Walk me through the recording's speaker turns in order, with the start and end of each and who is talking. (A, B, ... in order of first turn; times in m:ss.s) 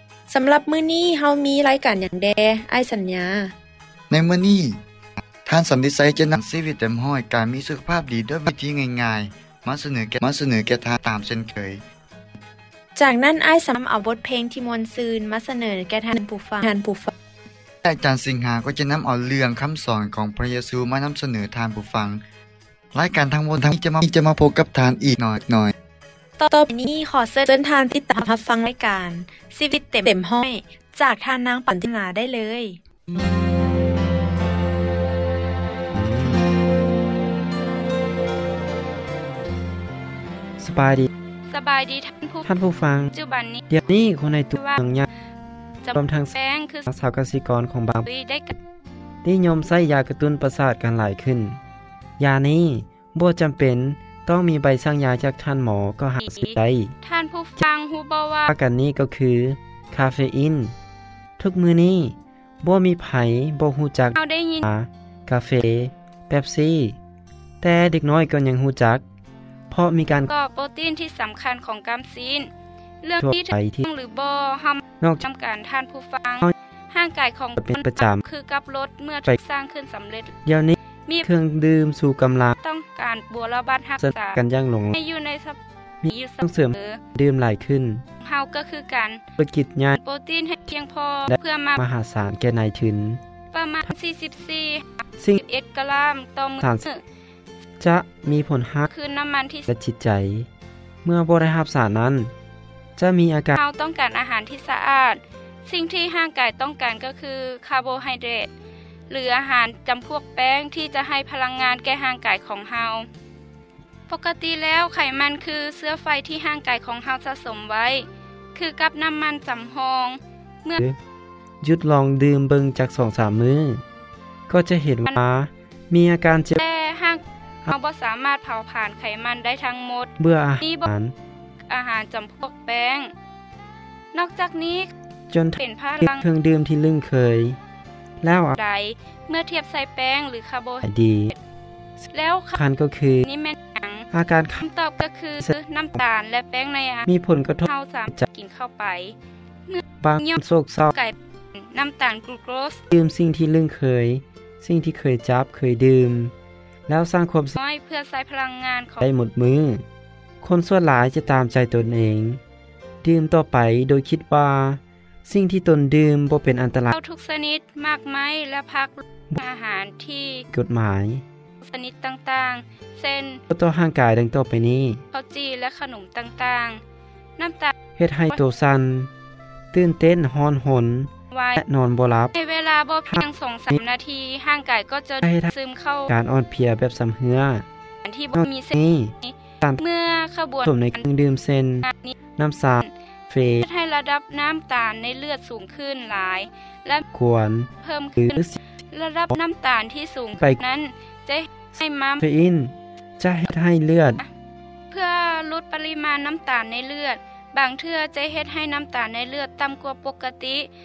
0:00.3-0:03.5 A
0:04.1-0:04.8 B
0:05.4-0:11.8 B
0:13.0-0:17.1 A
0:17.8-0:22.2 B
0:22.9-0:25.7 B
0:26.4-0:32.8 A
0:36.0-0:36.3 C
0:40.6-0:41.1 C
0:41.5-0:42.5 D
0:42.5-0:43.1 C
0:43.1-0:43.6 D
0:43.7-0:45.1 C
0:44.6-0:44.8 D
0:45.8-0:46.9 D
0:46.0-0:46.4 C
0:46.9-0:48.1 C
0:48.0-0:48.6 D
0:49.2-0:51.6 C
0:52.2-0:56.9 C
0:56.2-0:58.6 D
0:58.5-1:00.7 C
1:01.4-1:07.0 C
1:04.2-1:04.7 D
1:07.6-1:09.0 C
1:09.7-1:10.3 C
1:10.3-1:12.5 D
1:13.0-1:20.3 D
1:13.2-1:13.9 C
1:17.6-1:18.2 C
1:20.4-1:22.6 C
1:22.6-1:24.4 D
1:24.0-1:25.0 C
1:24.9-1:27.0 D
1:26.0-1:28.0 C
1:28.2-1:29.2 D
1:29.4-1:30.0 C
1:30.0-1:31.8 D
1:31.3-1:33.2 C
1:33.5-1:37.0 D
1:36.6-1:36.9 C
1:37.8-1:38.9 C
1:38.9-1:39.7 D
1:39.7-1:40.5 C
1:41.0-1:42.3 C
1:43.0-1:43.6 C
1:43.6-1:48.5 D
1:49.1-1:53.1 D
1:54.1-2:00.8 D
2:01.6-2:03.8 C
2:04.5-2:06.6 C
2:06.6-2:10.9 D
2:10.2-2:11.1 C
2:11.7-2:13.1 D
2:14.1-2:14.9 D
2:15.3-2:17.6 C
2:15.6-2:16.2 D
2:18.2-2:18.6 C
2:18.6-2:20.9 D
2:20.8-2:21.3 C
2:22.1-2:22.6 D
2:22.6-2:23.3 C
2:23.2-2:24.1 D
2:24.1-2:24.6 C
2:24.6-2:27.1 D
2:27.1-2:28.2 C
2:27.7-2:29.2 D
2:29.7-2:32.8 D
2:30.0-2:30.9 C
2:32.9-2:36.3 C
2:36.9-2:37.6 C
2:37.6-2:39.0 D
2:39.0-2:39.8 C
2:40.4-2:42.4 C
2:43.0-2:46.9 C
2:46.9-2:50.5 D
2:50.5-2:51.2 C
2:51.6-2:53.4 D
2:53.5-2:55.0 C
2:55.1-2:56.8 D
2:57.4-2:57.7 D
2:58.0-2:59.1 C
2:59.7-3:02.3 C
3:01.3-3:01.6 D
3:02.3-3:06.1 D
3:03.1-3:03.8 C
3:05.2-3:05.5 C
3:06.1-3:07.7 C
3:08.0-3:11.0 D
3:08.3-3:09.8 C
3:10.6-3:13.6 C
3:11.8-3:12.2 D
3:13.6-3:17.0 D
3:17.1-3:18.6 C
3:17.8-3:22.2 D
3:22.2-3:24.2 C
3:24.9-3:30.7 D